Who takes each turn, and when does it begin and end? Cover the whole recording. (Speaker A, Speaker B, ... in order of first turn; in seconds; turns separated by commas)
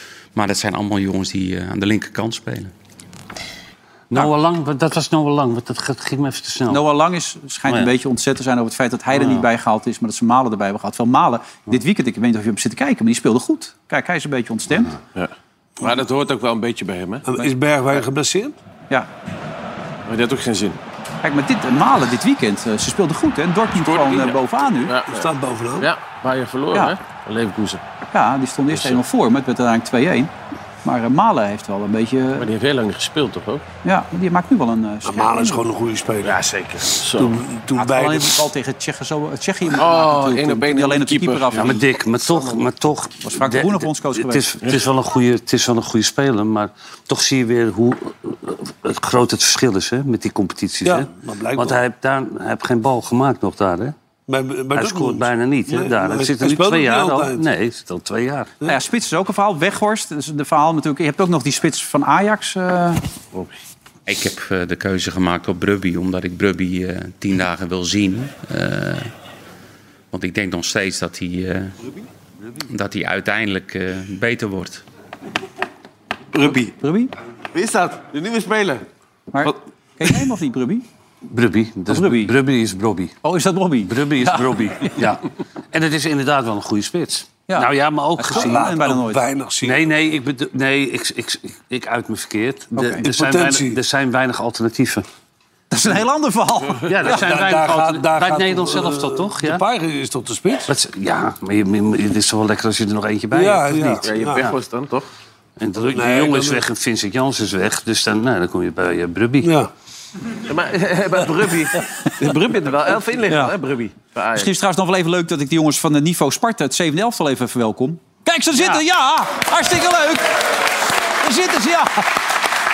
Speaker A: 0.3-2.7, Speaker B: 4.1-6.8, Speaker C: 6.7-14.9, Speaker B: 9.1-9.4, Speaker D: 15.1-17.2, Speaker E: 17.3-18.5, Speaker D: 20.1-20.8, Speaker C: 21.2-24.9, Speaker D: 23.8-25.3, Speaker E: 25.1-25.9, Speaker D: 25.8-27.8, Speaker C: 28.1-30.3, Speaker D: 28.7-29.0, Speaker C: 30.8-32.5, Speaker D: 32.4-33.6, Speaker C: 33.8-35.6, Speaker E: 35.0-36.4, Speaker D: 36.2-37.3, Speaker E: 37.1-38.5, Speaker C: 37.7-41.8, Speaker D: 39.7-42.6, Speaker B: 41.5-53.9, Speaker C: 43.2-44.4, Speaker E: 50.8-51.8, Speaker E: 54.3-57.4, Speaker B: 54.7-58.5, Speaker C: 58.7-63.0, Speaker A: 64.1-69.1, Speaker A: 70.1-71.8, Speaker A: 72.7-74.8, Speaker D: 76.3-76.7, Speaker C: 76.5-77.1, Speaker D: 77.5-78.8, Speaker C: 79.3-80.8, Speaker B: 81.3-83.2, Speaker C: 81.9-82.3, Speaker C: 83.2-84.9, Speaker B: 83.8-88.6, Speaker C: 87.5-89.2, Speaker E: 88.3-89.8, Speaker B: 89.6-95.0, Speaker C: 92.8-93.0, Speaker E: 93.0-93.8, Speaker C: 95.7-97.4, Speaker B: 96.9-99.6, Speaker E: 97.0-100.7, Speaker B: 100.7-104.5, Speaker E: 103.3-104.5, Speaker D: 104.0-105.0, Speaker B: 105.6-109.5, Speaker E: 105.9-106.6, Speaker E: 109.4-109.7, Speaker D: 110.5-114.5, Speaker C: 114.3-120.3, Speaker C: 121.2-122.1